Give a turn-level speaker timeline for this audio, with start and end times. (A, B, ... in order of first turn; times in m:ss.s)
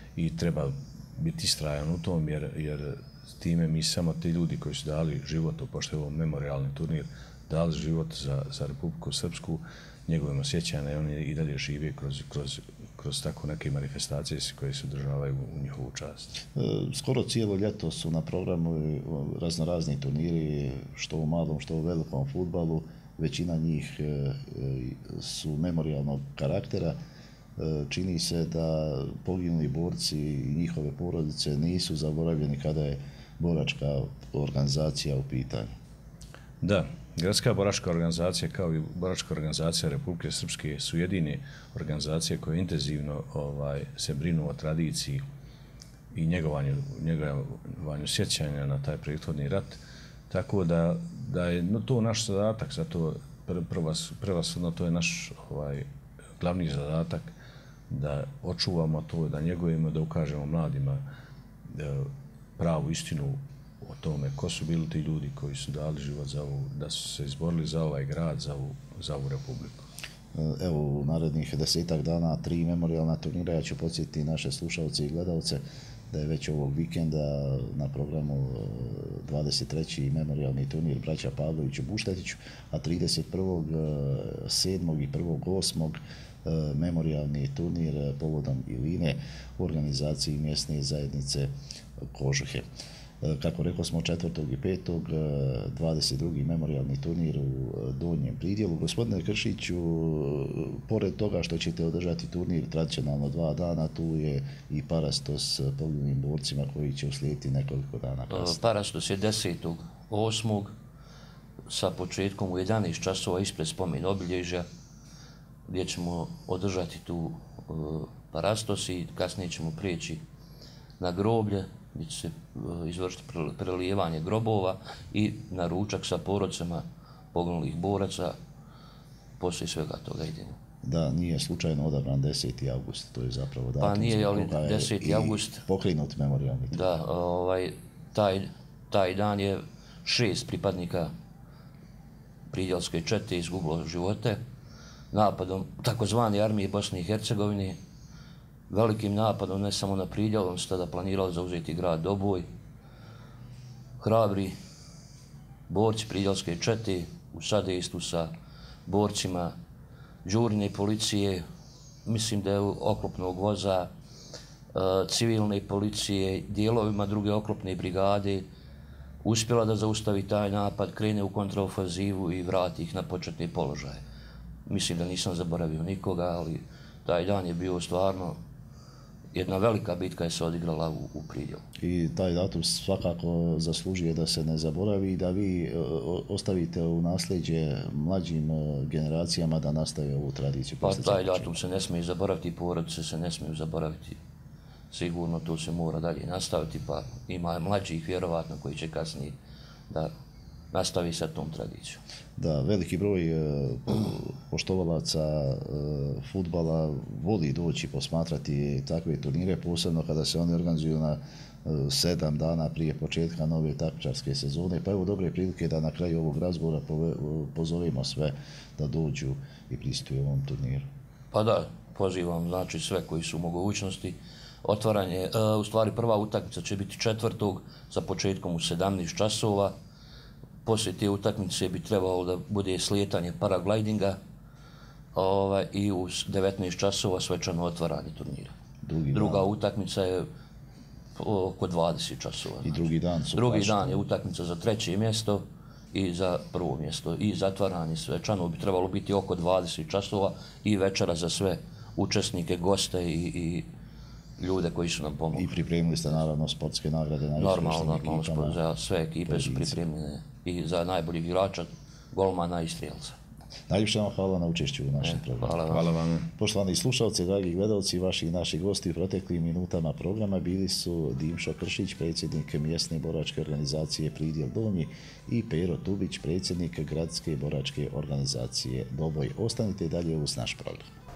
0:00.2-0:16.4 A
0:16.6-0:27.0 B
0:27.6-0:35.7 B
0:36.6-0:45.2 A
0:46.1-0:55.9 A
0:56.4-0:57.3 A
0:57.9-1:01.0 A
1:01.7-1:02.1 A
1:02.6-1:09.8 A
1:10.3-1:31.5 B
1:32.1-1:32.7 B
1:33.2-1:48.6 B
1:48.3-1:50.7 C
1:51.7-1:54.6 C
1:55.7-2:00.2 C
2:01.0-2:08.4 C
2:09.4-2:10.6 C
2:10.8-2:17.0 B
2:13.8-2:15.6 C
2:16.7-2:21.1 C
2:22.5-2:24.4 C
2:25.1-2:27.8 C
2:28.7-2:32.5 C
2:34.0-2:34.6 C
2:35.7-2:38.3 C
2:38.9-2:39.6 C
2:40.2-2:41.4 C
2:42.1-2:43.9 C
2:44.8-2:48.5 C
2:49.2-2:54.0 C
2:54.7-2:58.4 C
2:59.3-3:01.6 C
3:01.8-3:11.6 B
3:10.8-3:14.2 C
3:14.9-3:19.4 C
3:20.7-3:22.0 C
3:22.4-3:40.9 B
3:41.3-3:49.7 C
3:50.6-3:54.2 C
3:55.2-3:58.5 C
3:58.8-3:59.5 B
3:59.1-4:00.3 C
4:01.2-4:13.7 C
4:02.6-4:04.1 B
4:14.4-4:15.5 C
4:15.3-4:18.6 B
4:17.4-4:23.2 C
4:19.3-4:19.8 B
4:23.7-4:25.8 B
4:25.0-4:25.9 C
4:25.7-4:26.3 A
4:26.4-4:40.9 B